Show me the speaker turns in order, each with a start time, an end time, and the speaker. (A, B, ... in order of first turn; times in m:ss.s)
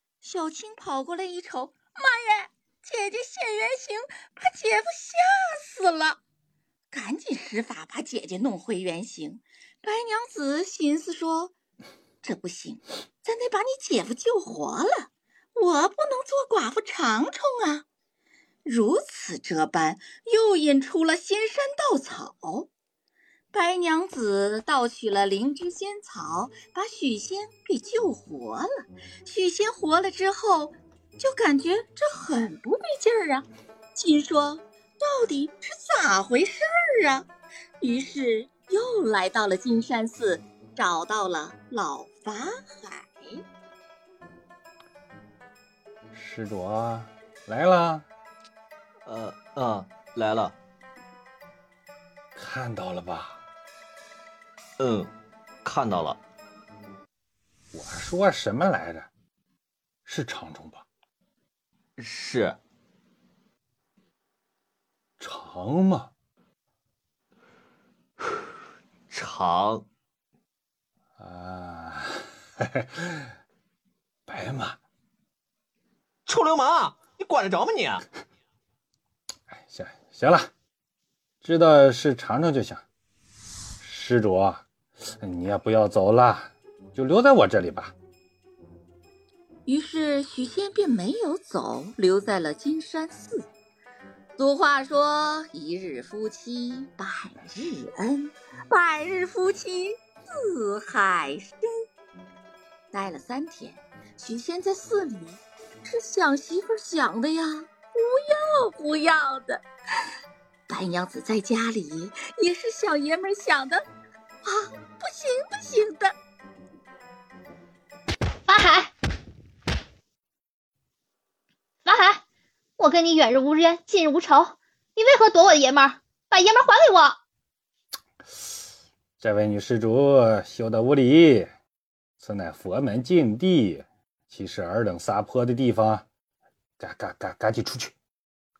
0:00.2-0:06.2 A
0:06.9-0:11.5 A
0:12.2-0:17.8 A
0:18.6-0:22.7 A
0:23.5-0:37.3 A
0:37.8-0:43.4 A
0:46.1-0:48.1 B
0:49.1-0:50.6 C
0:52.4-0:53.4 B
0:54.8-0:55.1 C
0:55.6-0:56.2 C
0:57.7-0:59.1 B
1:00.1-1:00.8 B
1:02.0-1:02.6 C
1:05.2-1:06.1 B
1:09.1-1:09.8 C
1:11.2-1:13.3 B
1:14.3-1:14.8 B
1:16.3-1:18.0 C
1:19.5-1:20.5 B
1:21.4-1:22.8 B
1:23.8-1:24.6 B
1:25.2-1:27.9 B
1:29.7-1:33.5 A
1:34.4-1:41.7 A
1:42.9-1:49.6 A
1:50.7-1:53.8 A
1:54.4-1:56.1 A
1:58.5-1:58.9 D
2:01.8-2:02.2 D
2:02.8-2:07.2 D
2:09.2-2:11.5 B
2:12.2-2:16.0 B
2:16.8-2:17.9 B